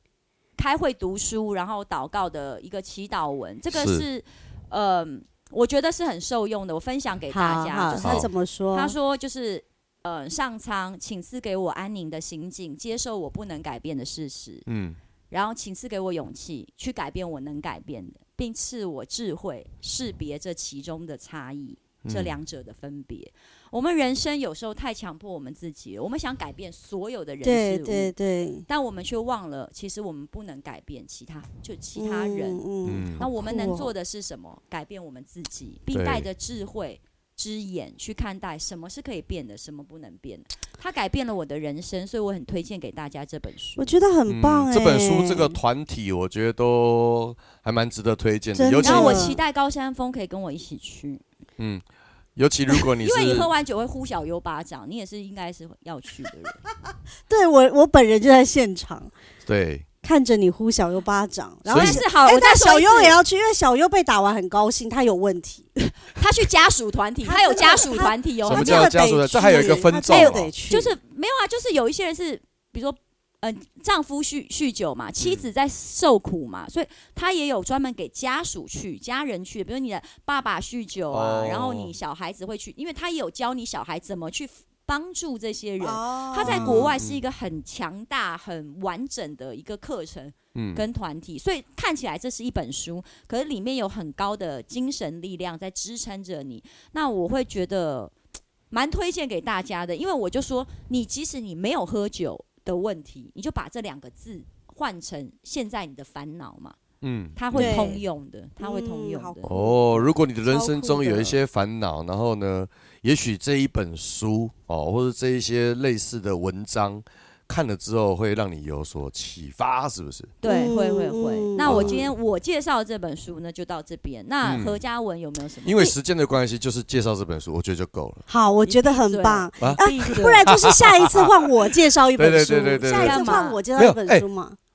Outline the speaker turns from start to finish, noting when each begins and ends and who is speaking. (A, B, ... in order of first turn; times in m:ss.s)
0:00.6-0:14.6 A
0:03.7-0:04.0 B
0:07.3-0:08.9 C
0:08.0-0:08.3 B
0:14.7-0:15.0 B
0:15.3-0:28.1 A
0:22.0-0:22.3 B
0:27.4-0:28.6 C
0:28.7-0:32.6 A
0:32.0-0:33.9 C
0:32.8-0:33.2 B
0:33.2-0:43.8 A
0:35.9-0:36.2 B
0:43.8-0:45.6 C
0:44.3-0:49.3 B
0:48.5-0:49.4 C
0:48.8-0:51.2 A
0:52.4-0:53.5 B
0:53.0-0:56.6 A
0:57.3-0:59.1 C
0:59.4-0:59.8 B
1:00.0-1:05.7 C
1:01.7-1:02.0 B
1:01.7-1:03.2 A
1:06.1-1:09.0 A
1:07.2-1:10.9 C
1:08.4-1:10.5 B
1:09.6-1:38.1 A
1:21.1-1:21.9 B
1:25.8-1:26.9 C
1:26.4-1:27.2 B
1:30.5-1:30.8 B
1:38.7-1:46.8 A
1:47.0-1:48.0 B
1:47.4-1:49.5 A
1:47.5-1:48.0 C
1:48.6-1:51.4 C
1:49.5-2:00.3 B
2:00.4-2:05.9 A
2:00.4-2:02.1 C
2:01.6-2:02.0 B
2:04.4-2:04.8 B
2:05.6-2:08.2 B
2:08.3-2:14.6 C
2:08.6-2:10.5 A
2:09.6-2:11.4 B
2:12.2-2:14.2 B
2:13.0-2:13.6 A